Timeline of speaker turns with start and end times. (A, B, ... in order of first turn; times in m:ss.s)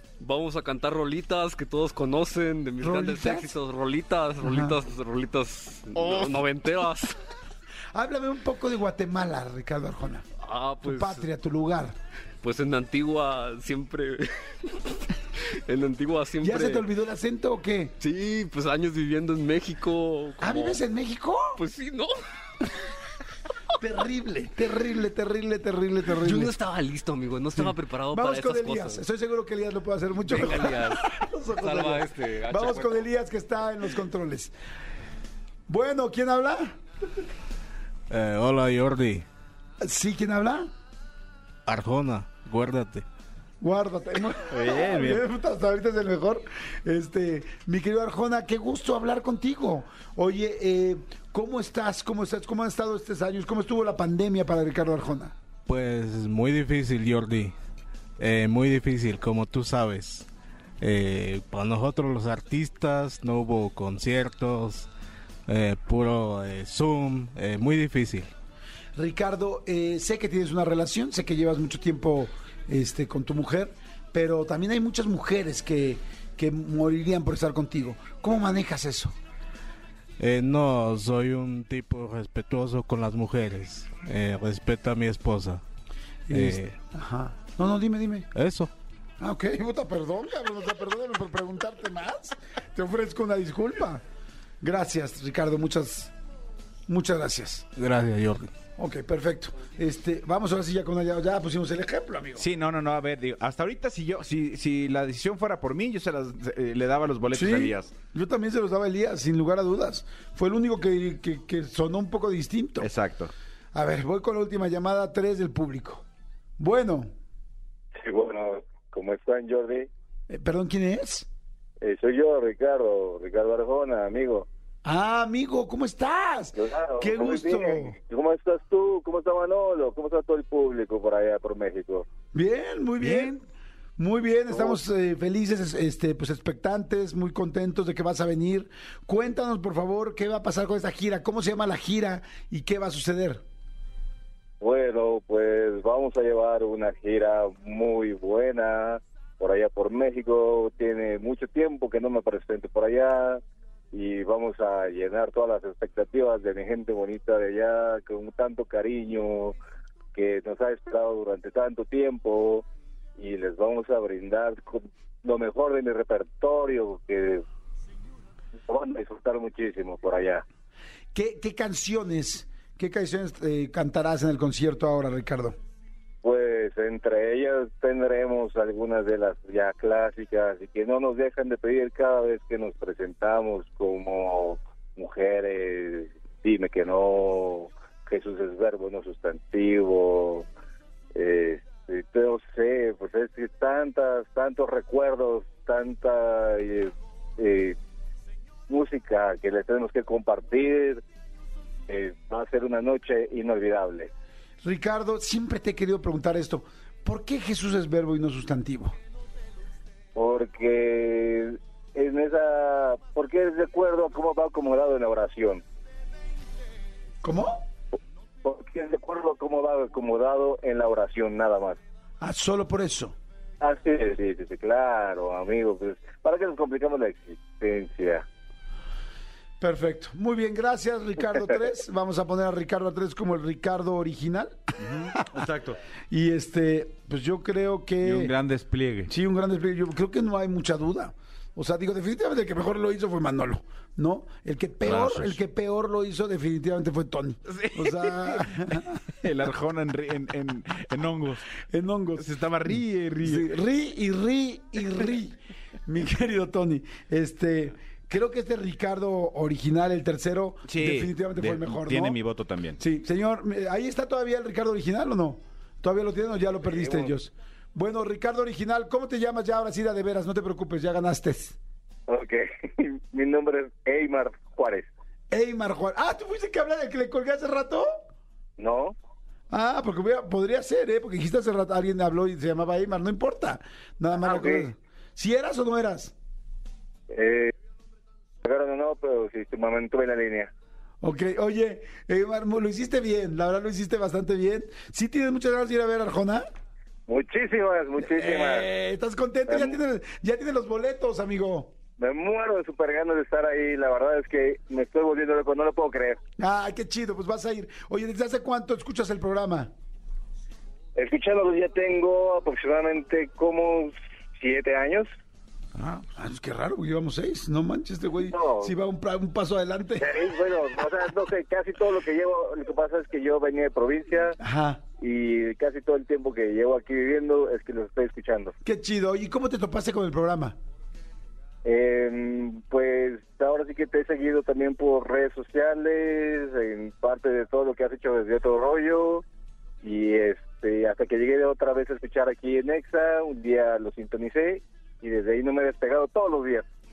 0:00.2-0:07.2 A
0:02.8-0:03.5 B
0:04.4-0:04.8 B
0:07.9-0:10.2 B
0:10.4-0:11.3 A
0:10.8-0:11.9 B
0:12.4-0:16.9 A
0:16.4-0:17.9 B
0:18.0-0:20.8 A
0:20.4-0:21.6 B
0:21.6-0:22.1 A
0:23.8-0:26.5 B
0:26.0-0:29.0 A
0:27.6-0:34.5 B
0:30.2-0:31.1 A
0:31.6-0:33.0 A
0:35.7-0:36.7 B
0:38.1-0:39.2 C
0:39.8-0:40.7 B
0:41.6-0:43.0 C
0:43.6-0:55.3 B
0:44.5-0:45.2 D
0:55.7-0:57.5 C
0:58.2-1:00.3 C
1:00.8-1:04.9 C
1:05.5-1:08.3 C
1:09.0-1:19.1 B
1:20.2-1:25.6 C
1:26.3-1:28.3 B
1:26.3-1:26.7 C
1:28.3-1:28.7 C
1:29.2-1:34.0 B
1:34.6-1:36.1 B
1:36.9-1:37.6 B
1:37.8-1:38.5 C
1:38.8-1:42.4 B
1:42.4-1:47.9 D
1:47.3-1:52.9 B
1:52.8-1:53.3 D
1:53.7-1:56.0 B
1:56.6-1:57.1 B
1:58.0-1:59.9 E
2:00.3-2:01.3 B
2:01.8-2:04.5 E
2:04.8-2:07.9 B
2:06.5-2:12.1 E
2:12.3-2:13.4 B
2:13.0-2:13.4 D
2:14.0-2:23.4 B
2:14.5-2:14.8 E
2:24.6-2:39.6 E
2:40.1-2:42.6 E
2:43.2-2:47.4 E
2:48.7-2:50.4 E
2:51.1-2:55.6 B
2:56.2-3:10.5 E
3:11.1-3:17.8 E
3:18.7-3:21.0 E
3:21.9-3:24.1 E
3:24.6-3:28.9 B
3:30.1-3:35.6 E
3:37.2-3:37.6 B
3:38.4-3:41.8 E
3:42.2-3:43.1 B
3:43.6-3:48.2 E
3:49.6-3:54.6 B
3:54.8-3:55.8 D
3:55.1-3:55.4 B
3:56.1-3:58.3 B
3:58.0-3:59.1 D
3:59.1-4:09.0 B
4:04.8-4:05.4 D
4:07.5-4:11.5 D
4:11.6-4:12.3 B
4:12.2-4:13.5 D
4:13.2-4:22.2 B
4:20.6-4:22.8 D
4:22.8-4:31.6 B
4:26.6-4:27.2 E
4:32.1-4:34.9 E
4:35.3-4:37.9 B
4:38.6-4:38.9 E
4:39.5-4:46.1 B
4:44.2-4:44.7 E
4:47.1-4:47.5 E
4:48.4-4:50.5 E
4:51.0-4:56.4 B
4:57.1-4:58.7 E
4:58.0-5:01.7 B
4:59.5-4:59.8 E
5:02.0-5:06.2 E
5:06.4-5:09.7 B
5:11.0-5:15.1 E
5:15.8-5:16.1 D
5:16.2-5:20.1 B
5:18.2-5:18.7 E
5:20.0-5:24.4 E
5:24.4-5:24.8 B
5:25.0-5:28.5 E
5:28.6-5:30.6 B
5:31.6-5:39.2 E
5:39.8-5:46.6 E